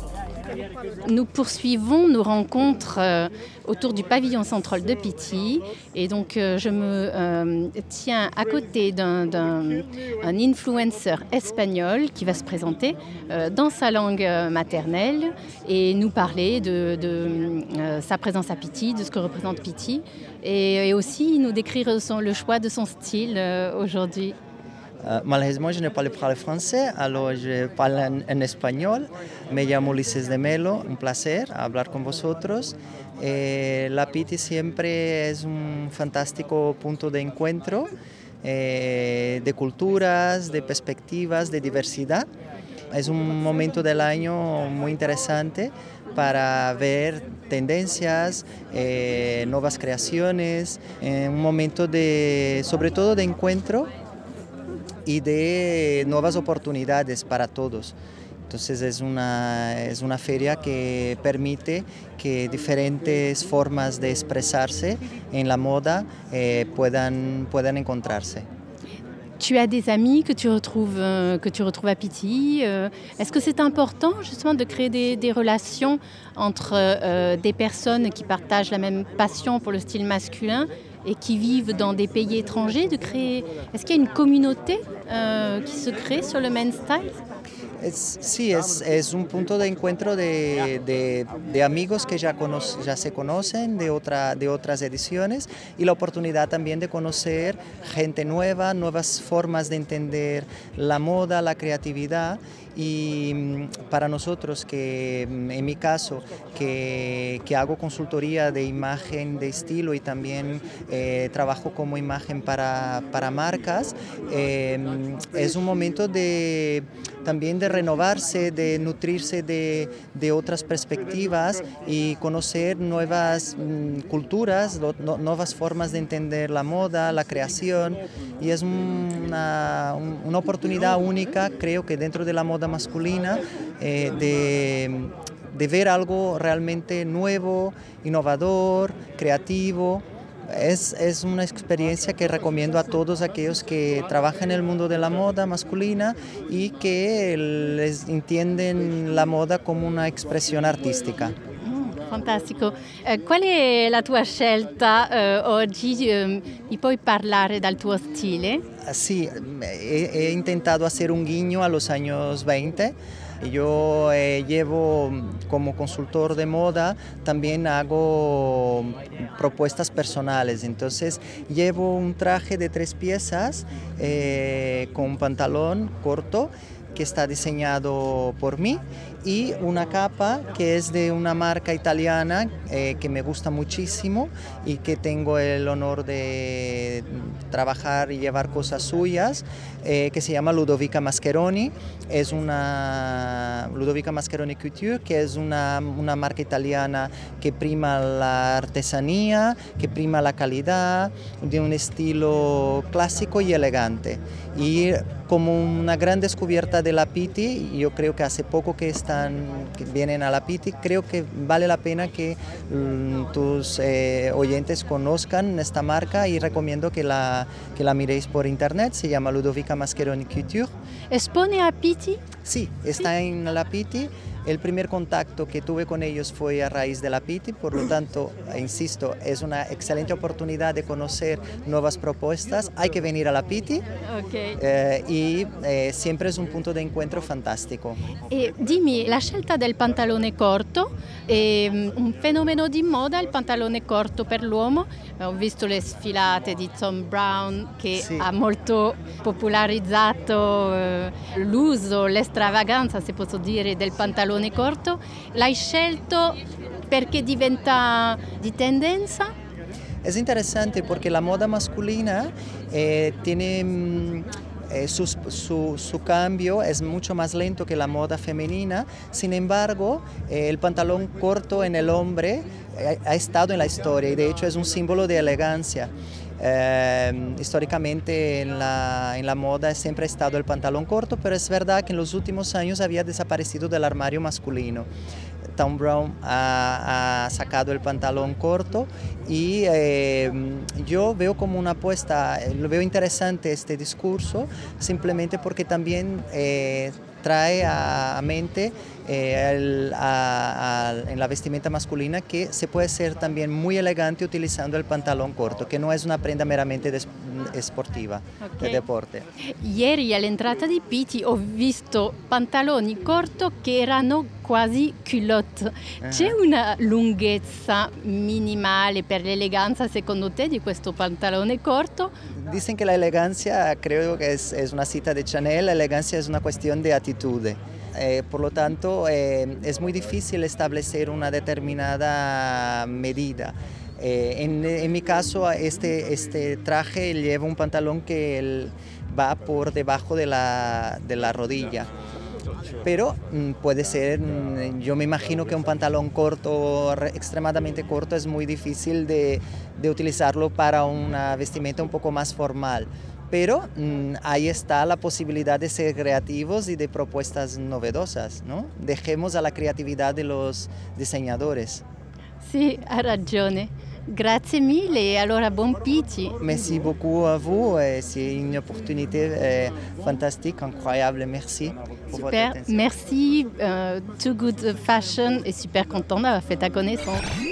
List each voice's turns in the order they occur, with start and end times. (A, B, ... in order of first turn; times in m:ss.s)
0:01.0-0:24.4 A
0:25.0-0:37.9 B
0:38.4-0:42.3 B
0:42.9-0:53.9 B
0:55.0-0:58.0 B
0:58.5-1:08.4 B
1:09.4-1:27.2 A
1:27.8-2:31.3 B
2:31.6-2:38.6 A
2:38.8-3:40.7 B
3:41.1-3:42.2 A
3:42.4-3:53.8 B
3:54.0-3:54.6 A
3:54.6-3:58.0 B
3:58.3-4:16.4 A
4:07.9-4:08.3 B
4:16.9-4:19.3 A
4:20.0-4:44.9 B
4:45.6-5:09.2 B
5:08.4-5:08.8 A
5:09.6-5:22.1 A
5:16.0-5:16.4 B
5:22.3-5:41.9 B
5:42.8-6:01.8 B
6:02.4-6:06.4 A
6:06.4-6:12.9 B
6:12.1-6:17.2 A